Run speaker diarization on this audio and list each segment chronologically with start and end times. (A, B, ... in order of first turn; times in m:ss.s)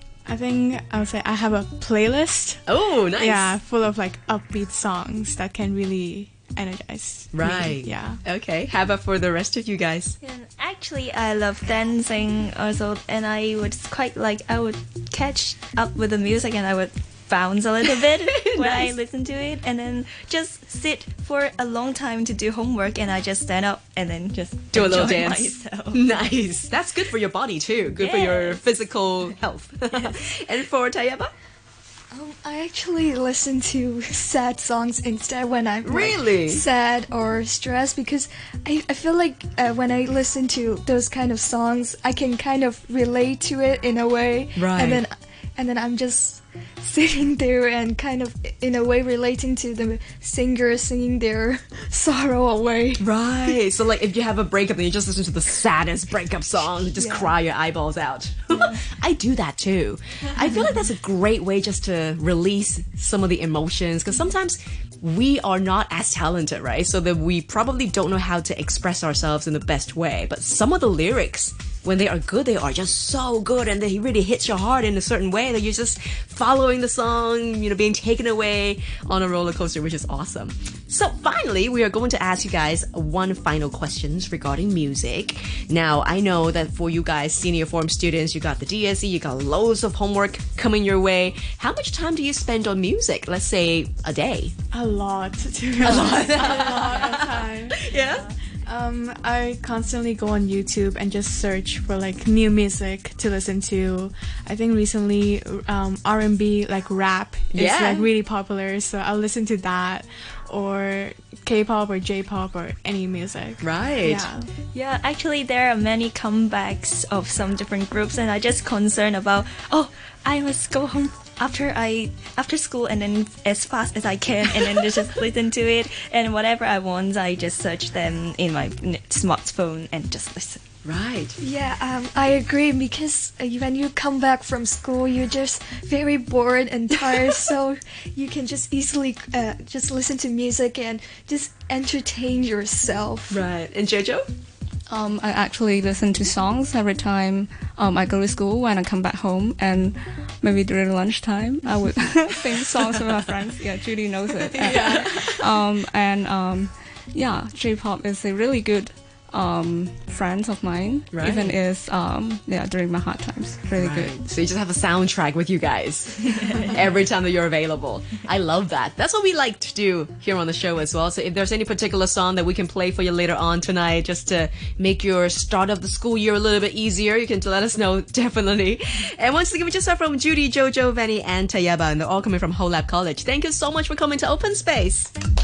0:00.2-0:08.2 A
0:02.7-0:03.6 B
0:07.3-0:10.2 B
0:10.2-0:26.0 C
0:18.3-0:18.9 B
0:24.7-0:31.3 B
0:27.9-0:28.6 C
0:29.9-0:30.2 C
0:32.1-0:53.6 D
0:35.8-0:36.6 B
0:44.6-0:45.0 B
0:53.0-1:34.5 B
0:56.9-0:57.3 D
1:34.7-1:38.0 A
1:35.8-1:38.3 B
1:38.6-1:54.5 A
1:47.5-1:48.1 B
1:53.6-1:54.2 B
1:54.7-2:10.6 C
2:10.8-2:11.4 B
2:11.4-2:23.4 D
2:23.3-2:24.3 B
2:24.9-2:44.2 E
2:34.3-2:35.6 B
2:41.1-2:41.5 B
2:43.8-3:05.1 B